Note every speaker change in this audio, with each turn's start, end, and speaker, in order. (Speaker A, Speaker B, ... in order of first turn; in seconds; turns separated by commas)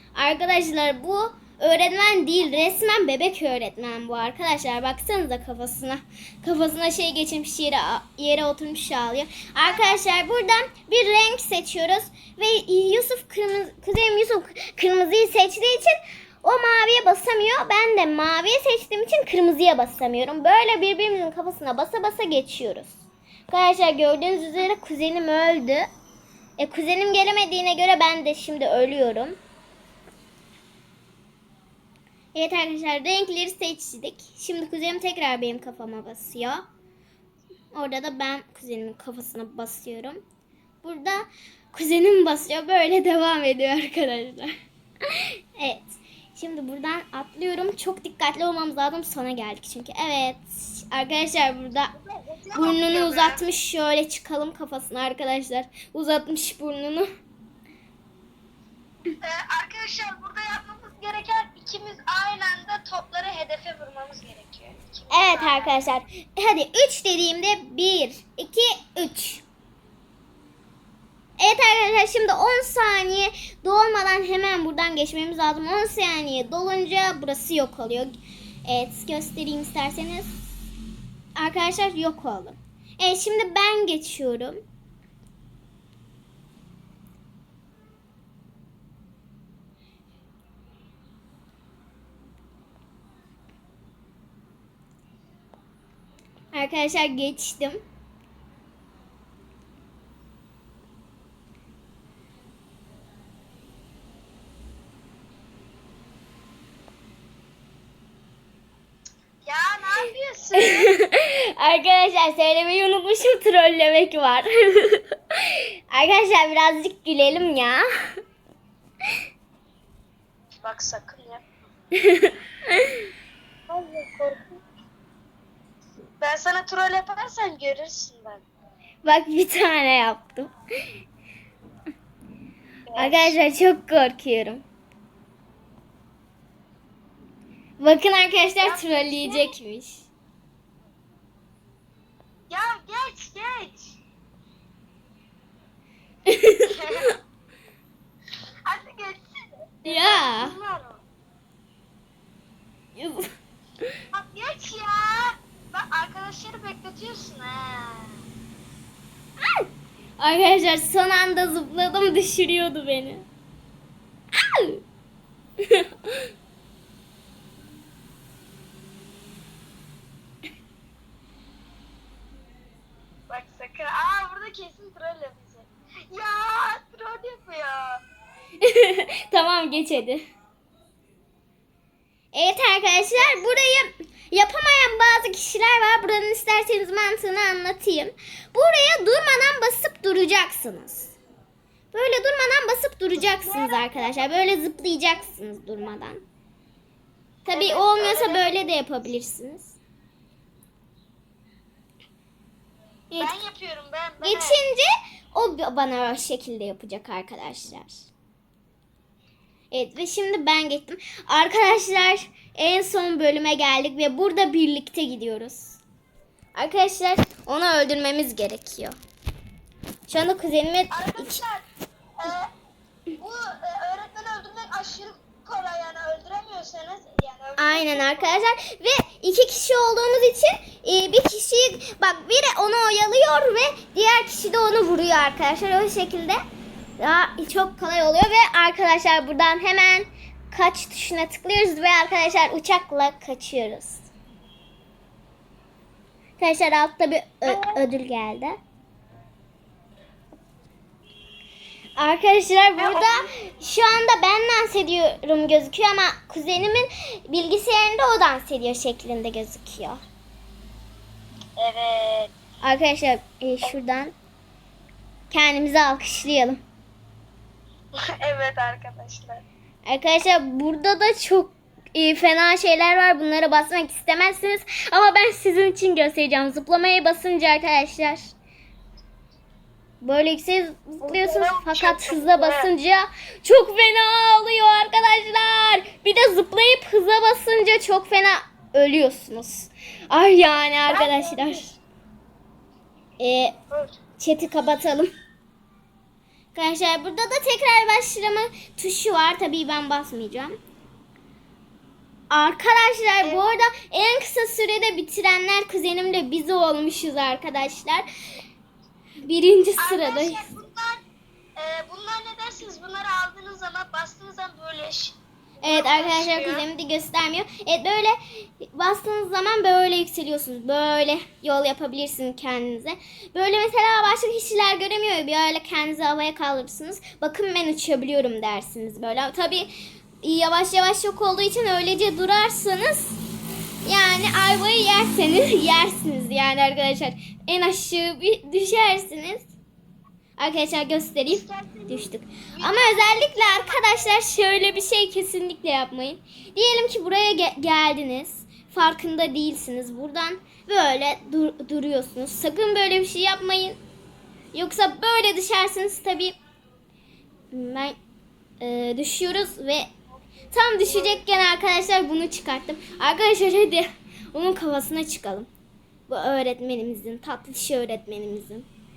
Speaker A: 0.1-23.0, Speaker B: 9.6-10.0, Speaker A: 23.5-25.9, Speaker A: 26.6-29.4, Speaker A: 32.4-36.6, Speaker A: 37.7-40.2, Speaker A: 40.8-44.5, Speaker A: 45.1-51.9, Speaker B: 51.9-53.5, Speaker A: 52.5-57.1, Speaker B: 59.2-65.8, Speaker A: 65.1-69.5, Speaker A: 71.4-80.4, Speaker A: 81.4-84.6, Speaker A: 96.5-97.8, Speaker B: 109.4-110.9, Speaker A: 110.6-117.8, Speaker B: 120.6-121.5, Speaker A: 122.0-123.0, Speaker B: 123.7-124.6, Speaker B: 126.2-128.4, Speaker A: 129.0-130.5, Speaker B: 132.9-133.4, Speaker A: 133.0-134.6, Speaker A: 137.8-140.1, Speaker B: 138.6-139.6, Speaker B: 142.5-144.0, Speaker A: 146.3-146.7, Speaker B: 146.6-147.1, Speaker B: 148.7-151.0, Speaker A: 149.8-150.6, Speaker A: 152.9-153.3, Speaker B: 154.1-158.2, Speaker A: 159.4-159.7, Speaker A: 160.2-163.3, Speaker A: 164.3-164.8, Speaker A: 165.6-166.2, Speaker B: 173.3-178.0, Speaker A: 178.6-180.2, Speaker A: 182.3-191.2, Speaker B: 183.2-183.5, Speaker A: 191.9-196.2, Speaker A: 197.5-199.8, Speaker B: 197.5-198.7, Speaker A: 203.1-203.4, Speaker B: 203.2-204.6, Speaker A: 204.2-208.1, Speaker A: 209.7-215.8, Speaker A: 216.6-219.0, Speaker A: 220.1-221.4, Speaker B: 220.9-221.7, Speaker B: 222.2-222.5, Speaker B: 223.2-228.5, Speaker A: 227.6-236.4, Speaker A: 237.0-244.1, Speaker A: 246.4-248.6, Speaker B: 247.5-247.8, Speaker A: 252.0-260.0, Speaker B: 252.8-253.3, Speaker B: 261.6-262.3, Speaker A: 262.6-264.1, Speaker A: 265.3-266.6, Speaker B: 268.0-269.4, Speaker A: 269.9-278.2, Speaker A: 280.0-291.8, Speaker B: 281.0-282.7, Speaker B: 290.9-291.7, Speaker A: 293.2-293.6, Speaker B: 293.7-294.0, Speaker A: 294.2-295.1, Speaker A: 296.5-300.6, Speaker A: 302.3-308.1, Speaker B: 303.2-303.5, Speaker A: 309.2-310.5, Speaker B: 309.8-311.0, Speaker B: 311.6-316.7, Speaker A: 315.6-329.7, Speaker A: 330.2-333.2, Speaker A: 333.8-339.5, Speaker A: 340.4-353.8, Speaker B: 341.3-344.8, Speaker A: 354.5-356.4, Speaker A: 357.5-358.0, Speaker A: 358.6-359.9, Speaker A: 360.5-365.5, Speaker B: 360.9-361.2, Speaker A: 366.1-368.7